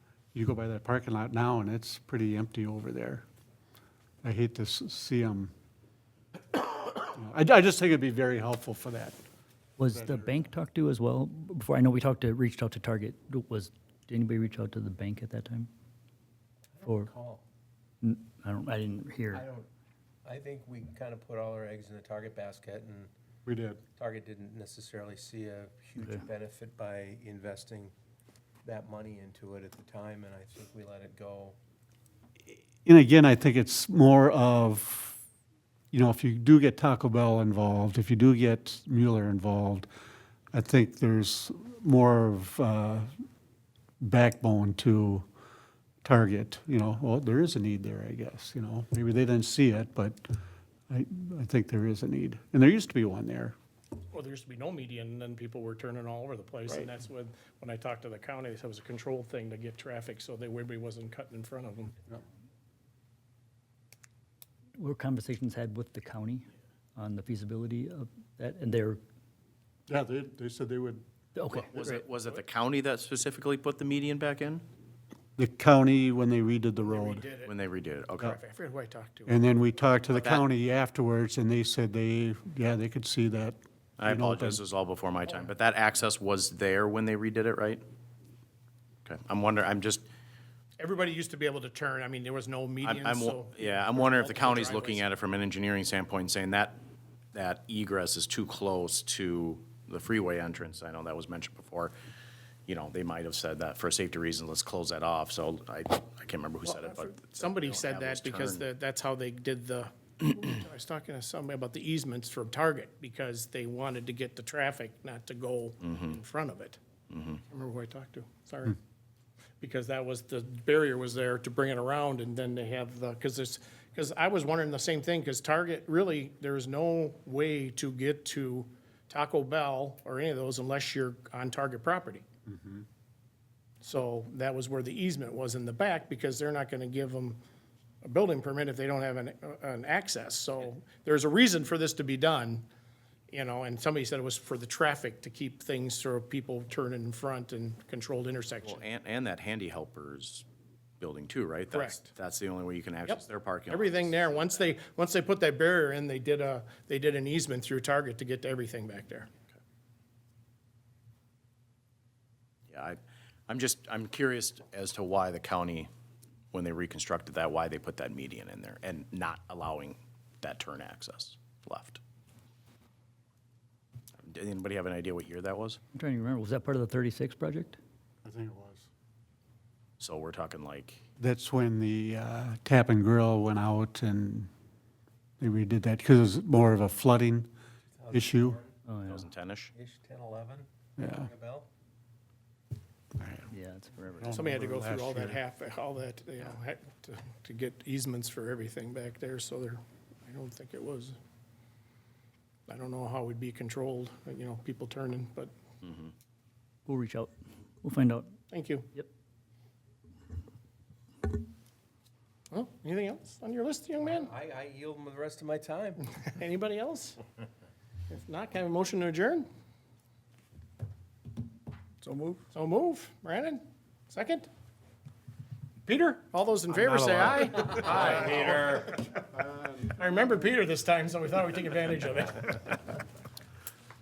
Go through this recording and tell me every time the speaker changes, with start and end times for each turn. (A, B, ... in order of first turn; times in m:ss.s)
0:00.3-0:03.2 A
0:04.2-0:05.5 A
0:07.0-0:09.2 A
0:09.8-0:15.7 B
0:09.9-0:10.4 A
0:16.8-0:17.4 C
0:16.8-0:17.1 B
0:18.0-0:19.4 B
0:19.3-0:19.7 C
0:20.2-0:23.1 C
0:23.5-0:23.8 A
0:24.0-0:27.9 C
0:26.0-0:26.2 B
0:28.6-0:31.6 C
0:32.8-0:35.2 A
0:35.9-0:39.9 A
0:40.5-0:43.1 A
0:44.0-0:45.3 A
0:46.0-0:50.4 A
0:50.9-0:53.6 A
0:54.1-1:02.0 D
1:04.8-1:09.0 B
1:09.9-1:11.0 A
1:11.4-1:11.8 B
1:11.5-1:14.6 E
1:15.4-1:17.3 A
1:16.8-1:17.5 D
1:17.4-1:18.4 E
1:18.2-1:19.4 D
1:19.3-1:24.6 A
1:20.1-1:20.4 E
1:24.0-1:27.8 E
1:29.0-1:30.1 E
1:30.8-1:35.0 D
1:32.8-1:36.8 E
1:37.3-1:41.9 E
1:42.7-1:48.6 E
1:46.7-1:56.8 D
1:55.8-1:56.2 E
1:57.1-1:57.4 E
1:57.5-1:58.8 D
1:59.6-2:12.2 D
2:12.5-2:12.8 A
2:13.8-2:17.4 D
2:18.0-2:22.6 D
2:23.3-2:28.8 D
2:28.6-2:30.4 E
2:31.0-2:34.7 E
2:31.7-2:32.1 D
2:33.1-2:39.3 D
2:42.7-2:45.9 E
2:46.5-2:52.0 E
2:54.2-2:55.8 E
2:55.9-2:57.8 B
2:58.2-2:58.9 A
3:00.0-3:01.0 E
3:01.2-3:04.5 A
3:05.4-3:07.5 A
3:07.9-3:08.8 C
3:08.1-3:08.6 A
3:08.9-3:09.3 B
3:09.1-3:09.7 E
3:09.7-3:11.7 C
3:11.0-3:11.3 A
3:13.5-3:14.4 B
3:14.2-3:15.4 A
3:14.3-3:21.2 D
3:22.7-3:25.5 D
3:25.8-3:26.1 E
3:26.9-3:27.3 B
3:27.8-3:28.3 B
3:28.5-3:28.9 D
3:32.5-3:34.3 D
3:34.0-3:36.0 C
3:36.3-3:37.2 D
3:38.1-3:39.5 D
3:42.0-3:44.5 D
3:45.8-3:49.3 D
3:46.7-3:49.0 E
3:49.5-3:49.8 A
3:49.8-3:52.8 D